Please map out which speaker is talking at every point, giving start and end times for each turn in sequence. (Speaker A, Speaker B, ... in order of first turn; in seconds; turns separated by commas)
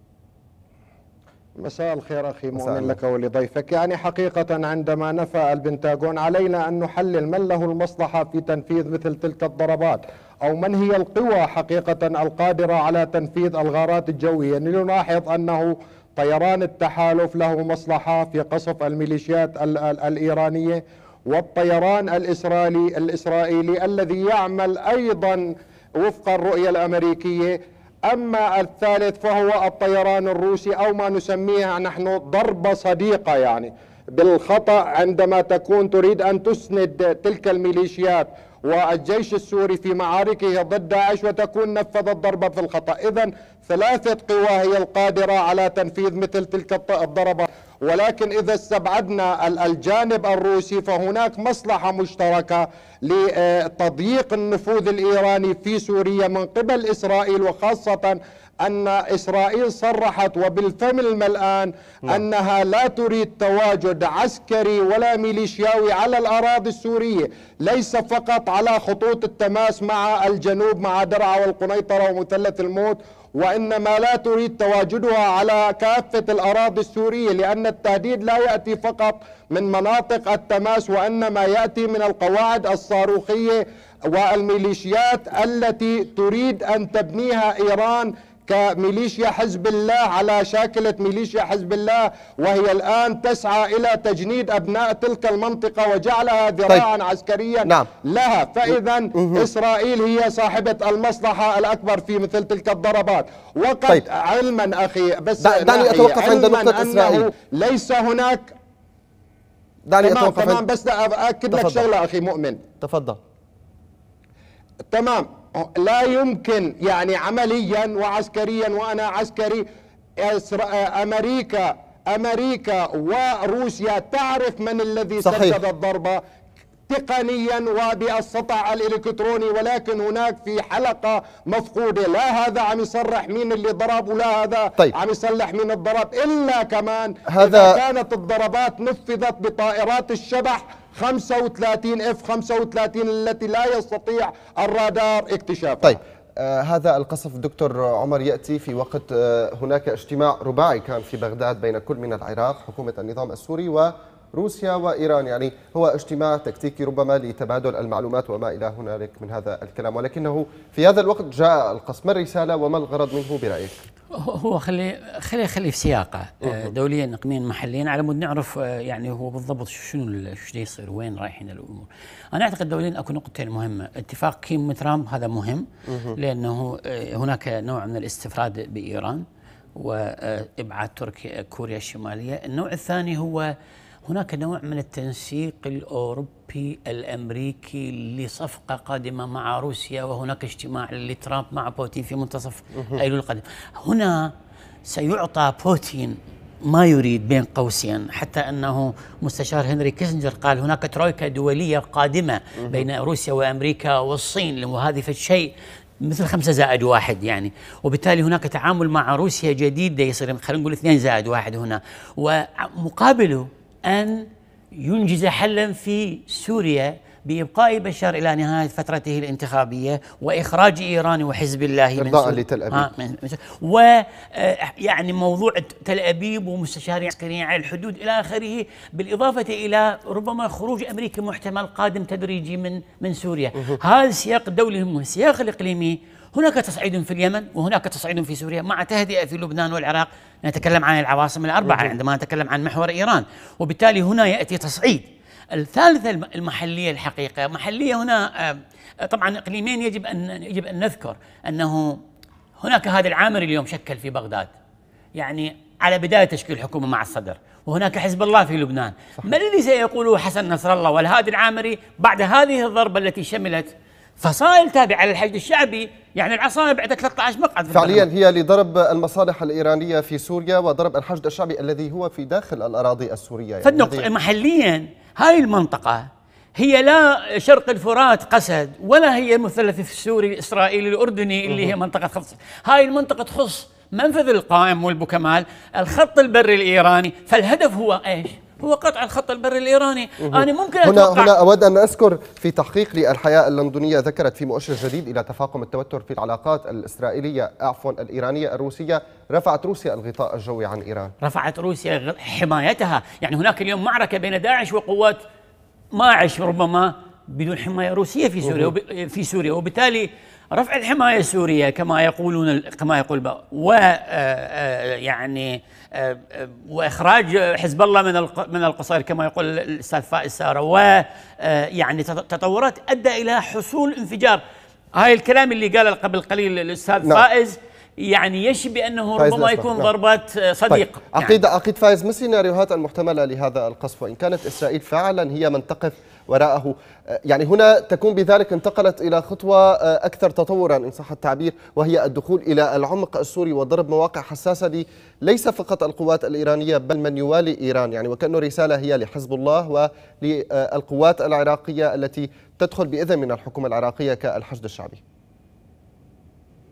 Speaker A: 1.6-108.5, Speaker B: 2.5-2.9, Speaker B: 99.2-99.5, Speaker B: 105.4-107.3, Speaker B: 109.9-110.6, Speaker A: 110.0-112.6, Speaker B: 111.5-111.9, Speaker B: 112.8-113.2, Speaker A: 114.9-119.6, Speaker A: 120.2-126.2, Speaker B: 125.2-125.5, Speaker A: 126.9-146.0, Speaker B: 137.3-137.8, Speaker B: 145.8-163.8, Speaker C: 164.2-179.2, Speaker B: 166.4-166.7, Speaker B: 175.9-176.2, Speaker C: 179.8-183.5, Speaker C: 184.1-194.3, Speaker C: 194.9-252.0, Speaker B: 221.9-222.9, Speaker B: 241.7-241.9, Speaker C: 252.6-254.5, Speaker C: 255.1-268.1, Speaker B: 267.7-274.1, Speaker C: 273.6-276.1, Speaker C: 276.6-291.3, Speaker B: 290.2-301.1, Speaker C: 301.2-305.2, Speaker C: 305.9-324.4, Speaker C: 324.9-331.4, Speaker B: 329.2-329.9, Speaker B: 330.7-355.0